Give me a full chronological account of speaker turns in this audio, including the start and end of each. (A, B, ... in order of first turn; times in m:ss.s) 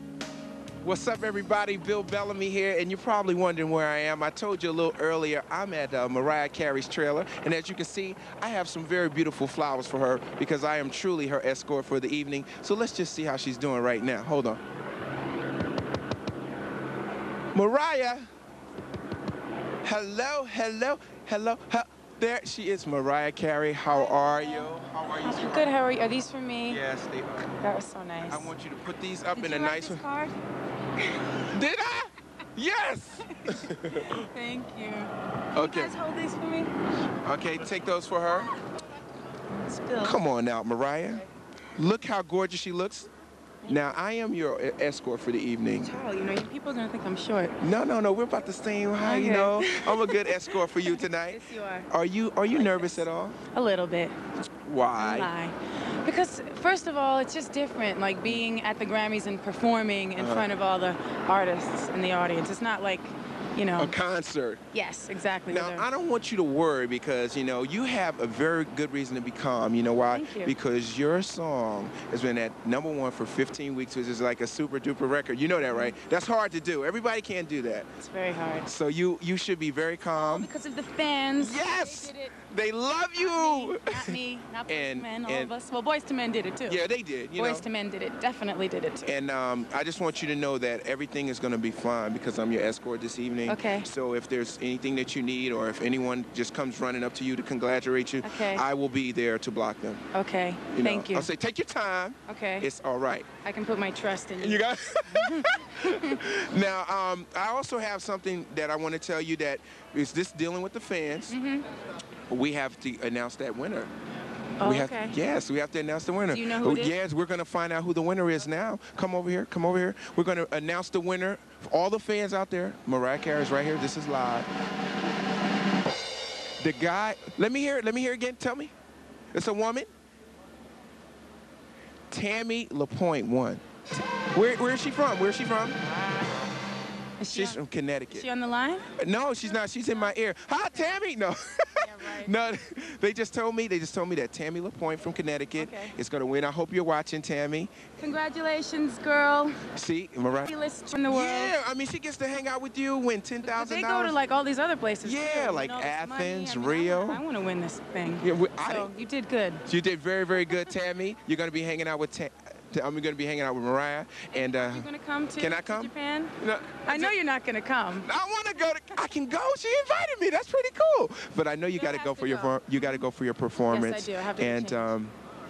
0:00.8-0:14.6 A
0:17.5-0:18.3 A
0:19.8-0:25.7 A
0:23.9-0:24.6 B
0:25.2-0:26.8 B
0:26.7-0:27.6 A
0:27.6-0:28.5 B
0:28.3-0:30.0 A
0:29.3-0:30.3 B
0:31.4-0:34.2 A
0:33.5-0:36.7 B
0:35.5-0:35.9 A
0:37.2-0:38.5 A
0:39.6-0:40.2 B
0:40.0-0:41.2 A
0:41.8-0:43.1 A
0:43.6-0:43.9 B
0:43.7-0:45.9 A
0:45.8-0:47.6 B
0:47.6-0:53.4 A
0:49.0-0:51.9 B
0:52.5-0:54.1 B
0:54.6-0:55.3 A
0:55.0-1:03.9 B
1:00.2-1:00.5 A
1:03.8-1:04.6 A
1:04.7-1:05.9 B
1:05.5-1:17.9 A
1:10.1-1:10.5 B
1:18.0-1:18.7 B
1:18.6-1:20.5 A
1:20.1-1:22.4 B
1:21.4-1:24.2 A
1:23.2-1:26.8 B
1:24.7-1:25.5 A
1:26.7-1:27.7 A
1:27.4-1:29.1 B
1:29.0-1:40.0 A
1:33.4-1:33.9 B
1:38.2-1:38.6 B
1:40.1-1:41.3 B
1:40.7-1:43.3 A
1:42.3-1:42.7 B
1:43.4-1:46.2 B
1:44.4-1:51.4 A
1:51.3-1:51.7 B
1:52.3-1:53.9 A
1:54.6-1:55.2 B
1:54.6-2:04.5 A
1:56.3-1:57.0 B
2:06.6-2:08.7 A
2:09.3-2:09.9 A
2:12.1-2:13.6 A
2:14.3-2:15.8 A
2:17.2-2:17.6 B
2:17.3-2:18.2 A
2:18.1-2:19.6 B
2:19.0-2:27.7 A
2:21.8-2:22.4 B
2:25.6-2:25.9 B
2:28.0-2:29.6 B
2:29.7-2:30.5 A
2:30.4-2:31.6 B
2:31.1-2:34.1 A
2:33.4-2:39.6 B
2:35.0-2:37.2 A
2:38.2-2:38.9 A
2:39.6-2:44.9 A
2:44.3-2:48.1 B
2:45.4-2:47.2 A
2:48.0-2:55.1 A
2:51.7-2:53.0 B
2:53.7-2:54.9 B